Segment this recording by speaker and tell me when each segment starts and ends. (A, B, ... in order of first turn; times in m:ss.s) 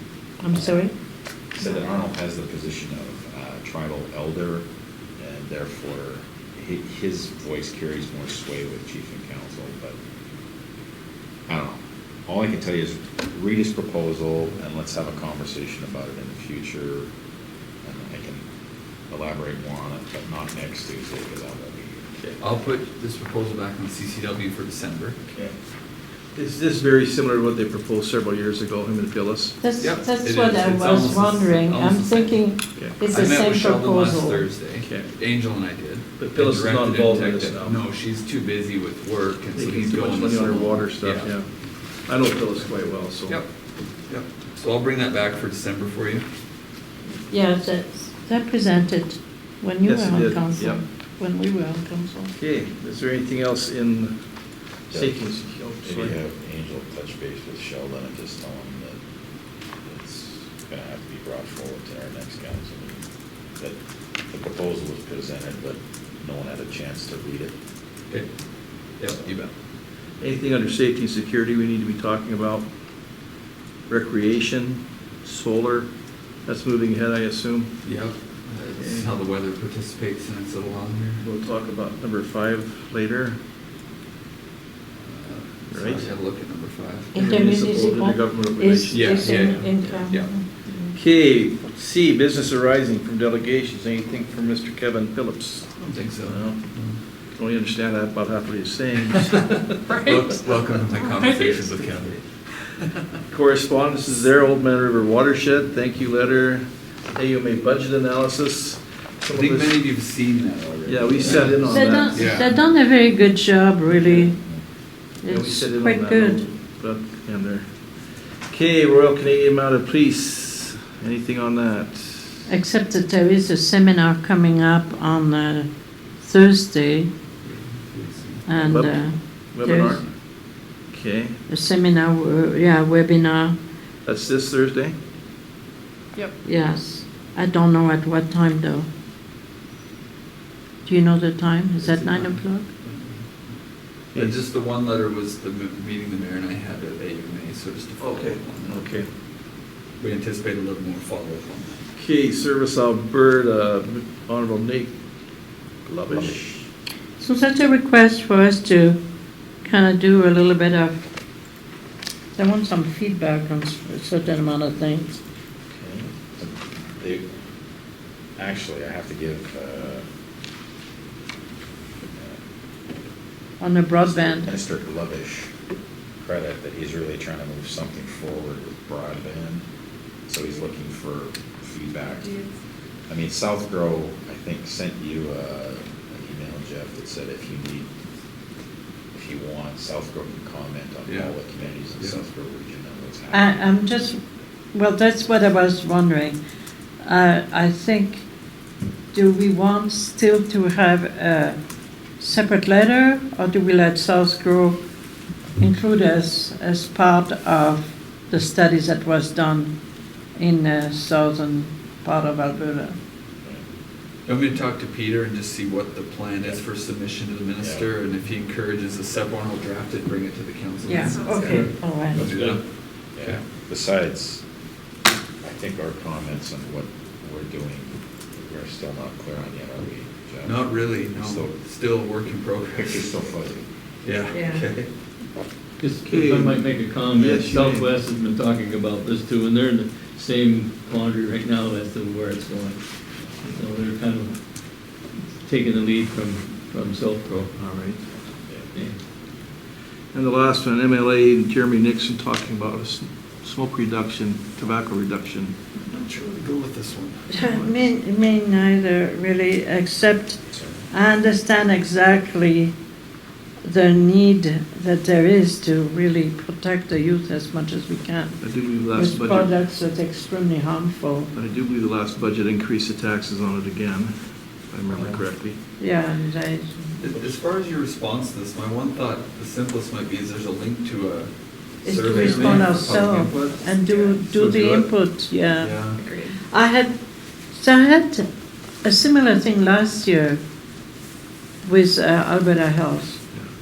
0:00.4-0:00.9 A
0:00.5-0:00.8 B
0:01.5-0:04.6 B
0:05.2-0:10.0 B
0:11.5-0:17.1 B
0:17.8-0:18.4 B
0:19.1-0:22.0 B
0:22.4-0:25.2 C
0:26.3-0:29.6 D
0:29.6-0:34.5 A
0:29.8-0:32.4 C
0:33.0-0:41.3 C
0:34.8-0:35.1 D
0:36.2-0:37.8 D
0:39.5-0:41.5 D
0:42.1-0:43.4 D
0:44.1-0:46.2 C
0:47.3-0:52.3 A
0:49.8-0:50.8 D
0:52.4-0:54.1 D
0:54.9-0:56.2 D
0:54.9-0:55.2 B
0:55.8-0:59.0 B
0:59.8-1:03.0 B
1:03.6-1:07.6 B
1:09.0-1:09.5 C
1:10.2-1:12.7 D
1:13.9-1:15.9 D
1:16.4-1:17.7 D
1:17.8-1:21.2 C
1:18.8-1:19.1 D
1:21.2-1:23.4 D
1:25.0-1:27.2 C
1:25.7-1:26.1 D
1:27.1-1:30.9 A
1:27.1-1:30.0 D
1:28.9-1:30.3 C
1:30.9-1:35.7 D
1:35.8-1:37.0 C
1:36.2-1:36.6 D
1:37.4-1:40.0 D
1:39.9-1:43.0 C
1:43.3-1:49.8 D
1:49.3-1:52.5 C
1:50.9-1:52.3 D
1:51.4-1:54.4 A
1:55.2-1:56.4 A
1:55.3-1:57.6 D
1:58.5-2:02.5 D
2:02.5-2:05.7 A
2:06.2-2:07.1 A
2:07.4-2:08.5 C
2:08.5-2:10.0 A
2:08.5-2:10.0 D
2:10.9-2:11.4 D
2:11.5-2:13.6 A
2:14.0-2:14.9 D
2:16.4-2:18.9 A
2:20.8-2:22.6 A
2:21.9-2:22.2 D
2:22.8-2:23.2 C
2:24.1-2:28.9 C
2:28.0-2:29.1 D
2:30.0-2:31.8 C
2:32.0-2:34.9 D
2:35.8-2:36.5 D
2:36.1-2:36.6 B
2:37.2-2:39.0 A
2:39.6-2:41.0 A
2:42.4-2:45.2 A
2:45.7-2:46.1 D
2:46.4-2:47.2 B
2:48.4-2:50.0 B
2:52.2-2:52.4 B
2:53.6-2:54.5 A
2:54.0-2:55.5 B
2:56.2-2:59.6 B
3:00.3-3:02.4 B
3:03.1-3:07.9 B
3:09.1-3:13.6 B
3:11.1-3:11.3 C
3:13.3-3:14.2 A
3:14.7-3:16.4 A
3:17.0-3:18.2 A
3:19.1-3:21.6 A
3:22.2-3:24.8 A
3:25.6-3:29.7 A
3:30.4-3:33.0 A
3:34.3-3:42.6 C
3:37.6-3:37.9 B
3:40.9-3:42.2 A
3:41.3-3:42.6 E
3:43.2-3:44.4 B
3:45.4-3:51.6 B
3:50.4-3:53.2 C
3:52.7-3:53.6 B
3:54.0-3:54.9 C
3:54.3-3:54.6 A
3:55.8-4:02.8 E
3:56.0-3:57.9 D
4:03.4-4:04.4 E
4:05.2-4:07.5 E
4:07.6-4:08.0 D
4:10.1-4:15.5 D
4:15.8-4:17.4 C
4:17.3-4:22.7 A
4:20.5-4:20.8 B
4:23.6-4:28.4 A
4:28.4-4:29.5 D
4:28.9-4:31.3 A
4:31.3-4:34.1 D
4:34.7-4:35.6 D
4:35.8-4:37.0 A
4:37.0-4:43.7 C
4:41.8-4:45.8 A
4:42.2-4:42.6 D
4:44.3-4:44.8 D
4:45.6-4:46.0 C
4:46.4-4:46.9 A
4:47.5-4:48.2 A
4:48.8-4:50.4 A
4:51.6-4:53.2 A